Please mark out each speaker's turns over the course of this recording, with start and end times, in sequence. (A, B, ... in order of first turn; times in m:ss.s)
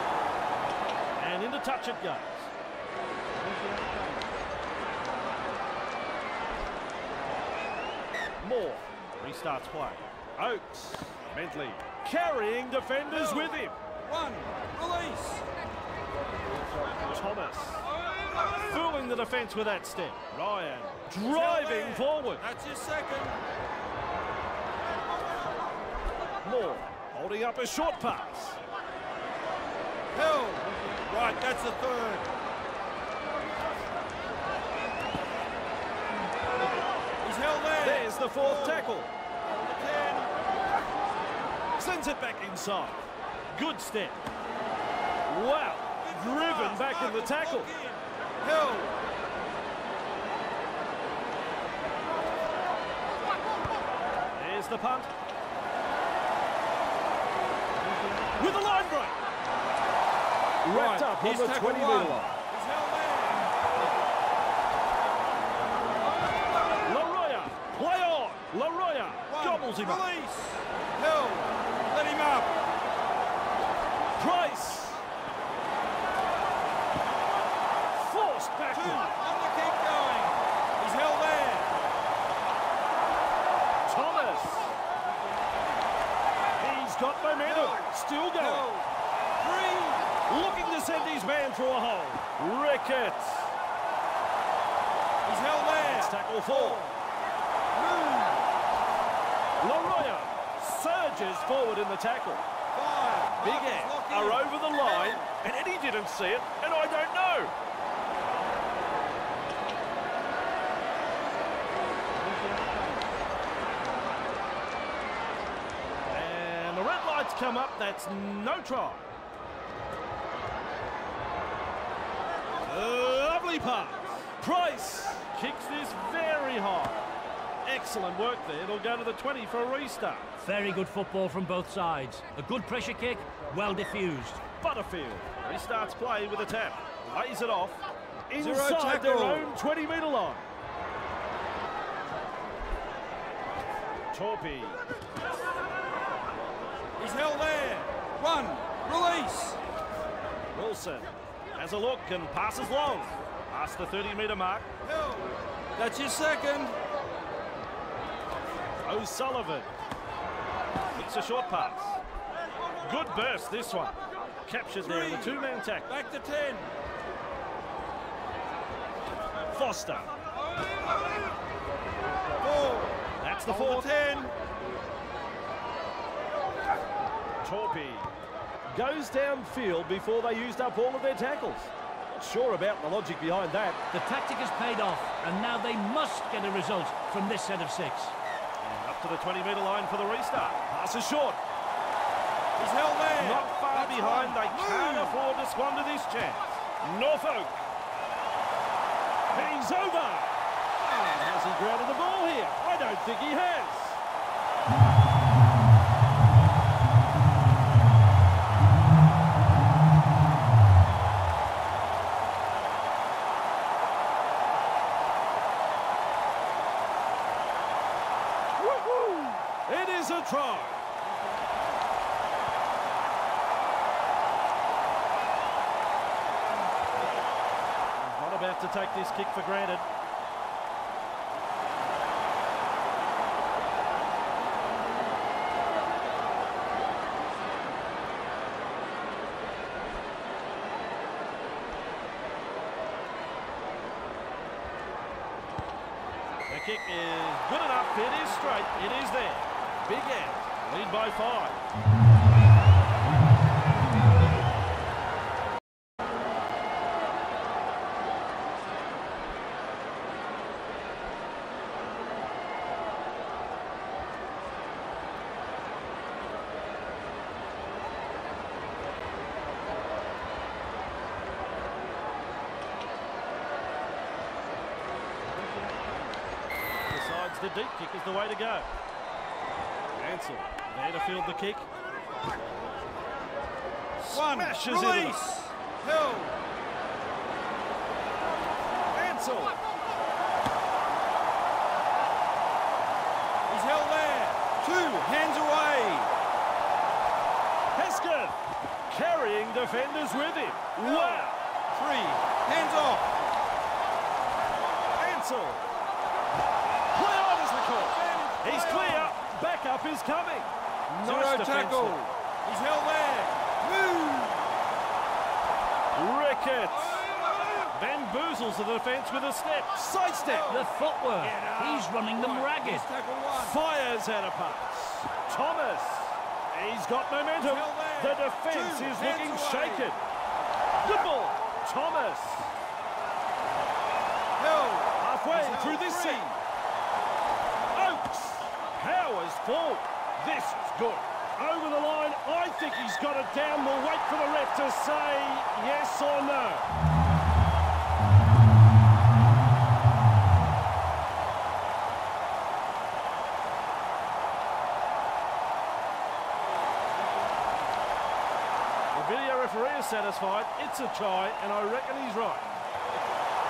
0:01.2-0:02.5 A
0:08.4-0:13.8 A
0:13.1-0:15.5 B
0:17.1-0:17.9 A
0:18.6-0:22.4 A
0:21.2-0:23.4 B
0:26.4-0:28.6 A
0:30.1-0:32.2 B
0:37.2-0:38.9 B
0:37.8-0:39.1 A
0:39.4-0:40.3 B
0:41.8-0:44.2 A
0:45.3-0:47.7 A
0:46.0-0:49.0 B
0:54.3-0:55.1 A
0:58.4-0:59.2 A
1:00.6-1:02.4 A
1:00.7-1:03.5 B
1:06.8-1:10.0 A
1:09.3-1:12.5 B
1:14.2-1:15.0 A
1:17.9-1:19.1 A
1:18.7-1:21.8 B
1:23.8-1:24.8 A
1:26.6-1:28.7 A
1:27.4-1:28.9 B
1:29.4-1:30.2 B
1:30.3-1:33.5 A
1:35.2-1:37.0 B
1:35.8-1:36.8 A
1:37.7-1:38.5 B
1:39.6-1:42.4 A
1:42.7-1:45.2 B
1:43.4-1:47.5 A
1:56.1-1:59.1 A
2:02.6-2:07.0 A
2:07.6-2:10.4 A
2:10.4-2:14.4 C
2:14.6-2:20.5 A
2:18.4-2:19.5 B
2:24.1-2:24.8 A
2:27.0-2:29.6 B
2:30.5-2:34.7 A
2:34.8-2:36.8 B
2:38.8-2:39.7 A
2:40.9-2:42.0 A
2:42.8-2:45.9 A
2:44.8-2:46.7 B
2:49.5-2:50.1 A
2:52.4-2:54.3 B
2:53.2-2:53.9 A
2:57.4-2:58.1 A
2:58.7-3:03.8 A
3:03.9-3:08.2 C
3:08.6-3:11.4 A
3:12.6-3:15.2 B
3:13.2-3:17.6 A
3:19.3-3:20.4 A
3:21.1-3:24.0 A
3:38.6-3:40.8 A
3:48.0-3:49.9 A
4:06.5-4:11.6 A
4:36.9-4:38.7 A
4:40.0-4:41.7 A
4:44.0-4:45.2 A
4:44.1-4:46.3 B
4:48.9-4:49.6 A
4:53.5-4:56.1 B
4:57.7-4:58.4 A
4:58.9-5:01.4 A
5:00.8-5:03.1 B
5:04.9-5:05.7 A
5:06.9-5:12.1 A
5:08.0-5:09.1 B
5:11.0-5:14.5 B
5:15.9-5:17.1 A
5:16.7-5:17.7 B
5:17.7-5:20.6 A
5:20.2-5:23.6 B
5:20.5-5:22.8 C
5:23.3-5:30.0 A
5:27.4-5:29.9 B
5:30.8-5:32.5 A
5:34.4-5:36.3 B
5:35.0-5:36.4 A
5:37.7-5:46.7 A
5:58.9-6:02.5 A